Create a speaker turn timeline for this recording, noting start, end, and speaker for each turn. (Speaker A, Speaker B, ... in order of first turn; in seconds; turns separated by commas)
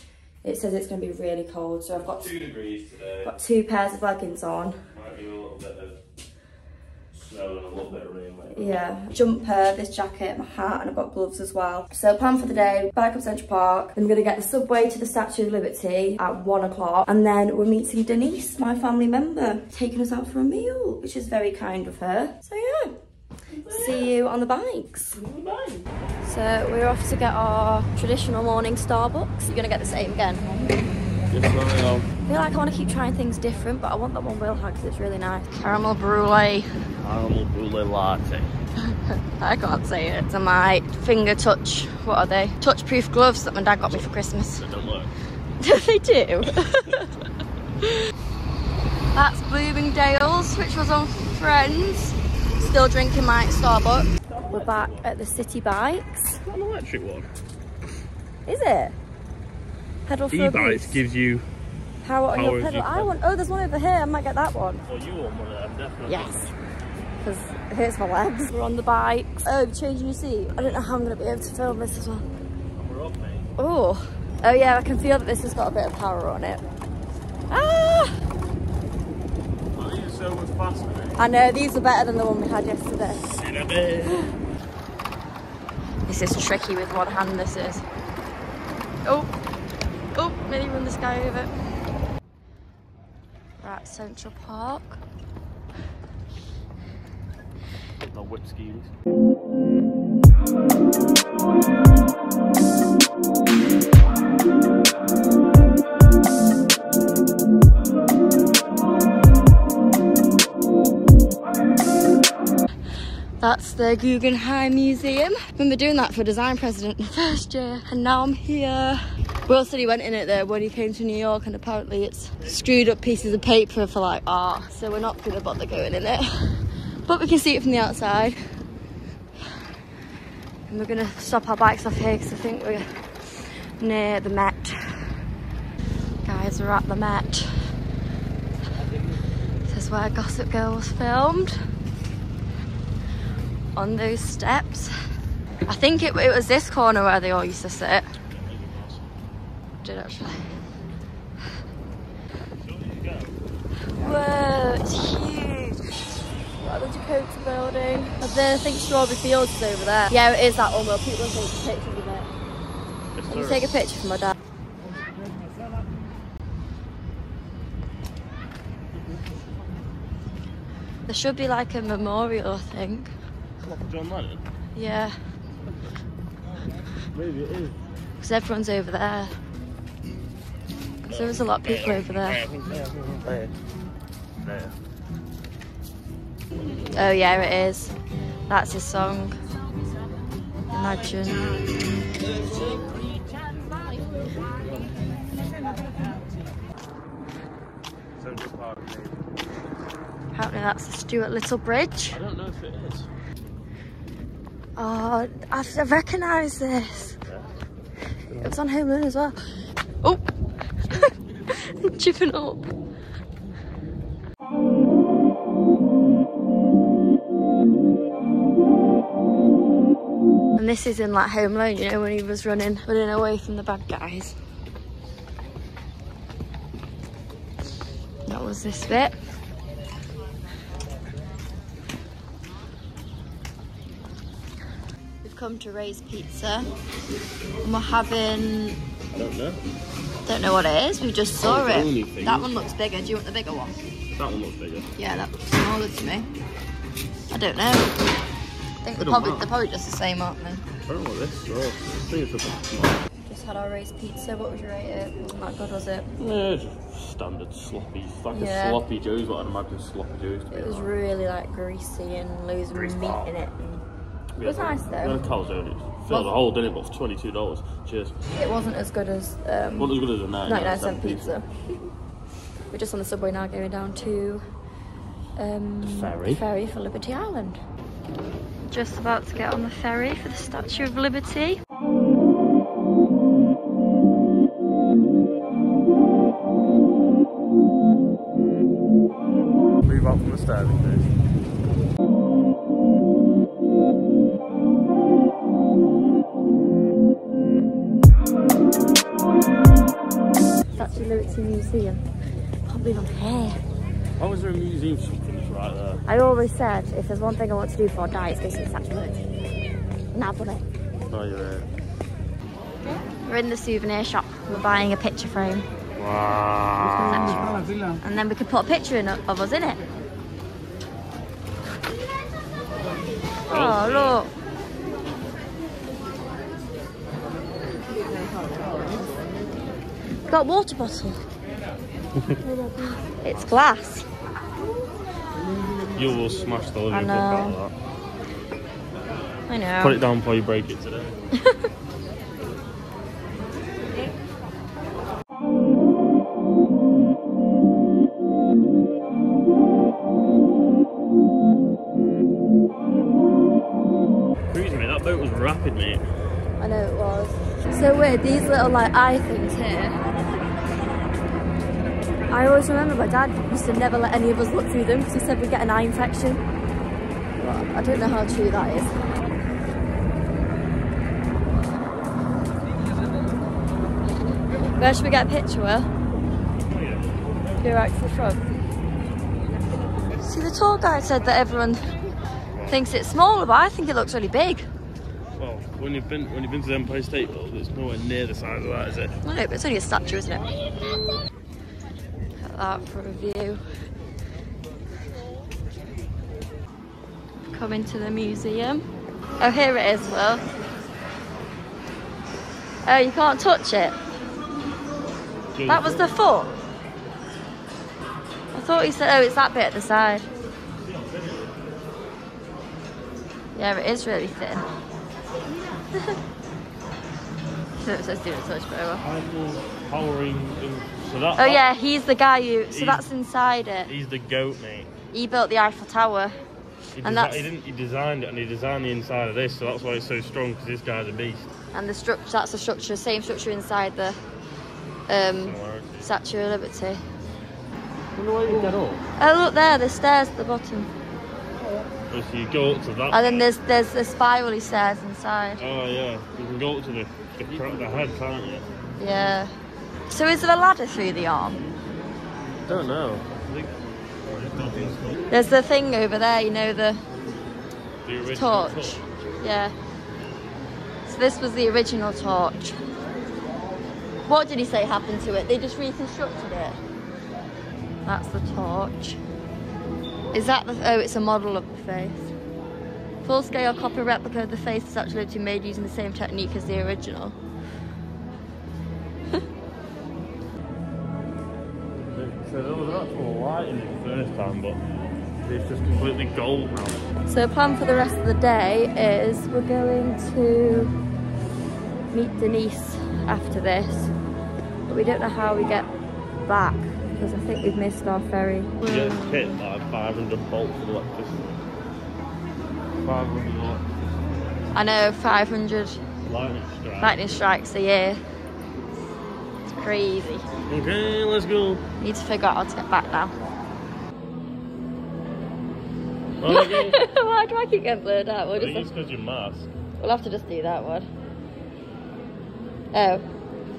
Speaker A: 0.4-2.3, Speaker B: 2.1-3.3, Speaker A: 3.2-4.8, Speaker B: 4.9-6.0, Speaker B: 7.3-8.8, Speaker A: 8.5-22.9, Speaker B: 23.7-24.1, Speaker A: 23.7-25.2, Speaker B: 25.2-25.9, Speaker A: 26.2-30.5, Speaker B: 31.3-32.1, Speaker A: 32.3-36.7, Speaker B: 37.0-38.5, Speaker A: 38.8-44.6, Speaker B: 43.8-45.1, Speaker A: 45.6-47.2, Speaker A: 49.1-56.4, Speaker B: 54.3-55.1, Speaker B: 56.4-57.3, Speaker A: 58.5-59.0, Speaker A: 60.1-61.0, Speaker B: 60.3-61.5, Speaker A: 62.0-64.8, Speaker B: 62.3-63.1, Speaker B: 64.8-66.5, Speaker A: 66.1-66.5, Speaker A: 67.2-72.3, Speaker B: 72.8-73.5, Speaker A: 73.6-76.6, Speaker A: 77.5-78.2, Speaker B: 79.7-81.2, Speaker A: 81.2-83.3, Speaker B: 83.1-84.3, Speaker A: 86.1-87.8, Speaker A: 89.0-89.3, Speaker A: 90.2-91.5, Speaker A: 93.6-95.0, Speaker B: 98.1-98.9, Speaker A: 113.4-128.4, Speaker A: 130.7-133.0, Speaker A: 133.8-135.2, Speaker A: 136.2-137.8, Speaker A: 139.7-141.6, Speaker A: 143.8-144.9, Speaker A: 145.7-148.1, Speaker B: 148.3-149.1, Speaker A: 149.8-150.5, Speaker B: 152.6-153.4, Speaker A: 153.9-156.0, Speaker A: 156.6-162.3, Speaker B: 163.2-163.7, Speaker A: 163.3-164.3, Speaker A: 171.1-173.1, Speaker B: 173.6-174.4, Speaker A: 174.8-175.2, Speaker B: 177.1-177.8, Speaker A: 178.2-179.3, Speaker A: 181.1-182.4, Speaker B: 181.1-183.5, Speaker B: 184.4-184.8, Speaker A: 186.9-187.9, Speaker A: 188.5-189.4, Speaker A: 190.7-191.5, Speaker B: 198.2-199.5, Speaker A: 200.3-202.2, Speaker B: 202.1-203.1, Speaker A: 204.8-207.2, Speaker B: 208.3-208.6, Speaker A: 208.4-209.4, Speaker A: 210.0-210.3, Speaker A: 210.9-212.7, Speaker A: 220.6-224.4, Speaker A: 228.3-229.2, Speaker A: 235.2-236.7, Speaker A: 237.6-238.8, Speaker B: 239.1-239.6, Speaker A: 240.3-243.8, Speaker B: 241.4-242.6, Speaker B: 244.2-244.9, Speaker A: 245.0-246.3, Speaker A: 247.3-248.0, Speaker A: 248.8-250.7, Speaker B: 249.0-249.5, Speaker B: 250.9-253.0, Speaker A: 253.3-256.1, Speaker B: 256.2-260.9, Speaker A: 258.3-258.8, Speaker A: 260.5-263.8, Speaker B: 262.7-263.3, Speaker B: 264.4-268.2, Speaker A: 264.4-265.2, Speaker A: 268.4-271.5, Speaker B: 269.8-271.3, Speaker A: 272.7-274.4, Speaker A: 275.4-277.6, Speaker B: 275.8-276.4, Speaker A: 278.7-281.6, Speaker B: 289.8-291.1, Speaker A: 300.7-302.0, Speaker A: 302.7-303.6, Speaker B: 304.2-306.0, Speaker A: 306.1-309.2, Speaker A: 310.1-310.7, Speaker B: 311.1-311.7, Speaker A: 313.3-315.7, Speaker B: 316.0-317.7, Speaker A: 316.9-319.8, Speaker A: 323.5-324.3, Speaker B: 323.5-324.2, Speaker A: 330.3-331.2, Speaker A: 332.4-334.1, Speaker B: 335.9-337.8, Speaker A: 336.9-337.6, Speaker A: 339.5-340.0, Speaker B: 339.8-341.2, Speaker B: 354.5-356.0, Speaker A: 356.6-360.0, Speaker A: 362.3-366.4, Speaker A: 367.4-369.0, Speaker A: 374.8-375.9, Speaker B: 376.6-377.4, Speaker A: 377.6-378.4, Speaker A: 380.2-381.9, Speaker B: 382.5-382.8, Speaker A: 382.7-384.7, Speaker B: 385.4-389.2, Speaker A: 389.2-390.5, Speaker A: 392.4-393.6, Speaker A: 397.5-398.9, Speaker A: 399.4-400.4, Speaker A: 402.9-404.0, Speaker B: 405.5-406.1, Speaker A: 405.7-406.6, Speaker A: 408.5-410.3, Speaker B: 410.8-411.6, Speaker A: 413.6-414.6, Speaker A: 417.8-419.1, Speaker B: 419.0-421.7, Speaker A: 421.4-423.9, Speaker B: 422.7-423.1, Speaker B: 423.9-424.9, Speaker A: 425.1-426.4, Speaker B: 427.0-431.5, Speaker A: 427.0-427.5, Speaker A: 431.7-434.2, Speaker A: 435.1-437.0, Speaker B: 435.4-436.1, Speaker B: 438.1-439.0, Speaker A: 439.2-440.9, Speaker B: 442.1-443.5, Speaker A: 443.1-445.6, Speaker B: 445.6-448.7, Speaker A: 449.0-449.5, Speaker A: 450.1-451.6, Speaker B: 452.7-453.8, Speaker B: 454.3-455.1, Speaker A: 455.3-457.0, Speaker B: 458.1-459.1, Speaker A: 458.3-459.7, Speaker A: 461.1-462.8, Speaker A: 464.2-466.8, Speaker A: 468.1-469.2, Speaker A: 470.3-472.3, Speaker A: 473.2-477.4, Speaker B: 482.1-484.8, Speaker B: 485.4-487.1, Speaker A: 487.2-490.9, Speaker A: 492.1-494.1, Speaker A: 494.9-495.9, Speaker A: 496.5-499.6, Speaker B: 498.8-501.6, Speaker B: 503.0-504.0, Speaker A: 504.7-506.0, Speaker B: 506.2-507.3, Speaker A: 507.0-508.2, Speaker A: 509.7-510.5, Speaker B: 510.7-511.8, Speaker A: 512.0-513.3, Speaker B: 516.4-517.0, Speaker A: 516.5-518.9, Speaker B: 518.5-519.7, Speaker A: 520.0-521.1, Speaker A: 522.9-523.3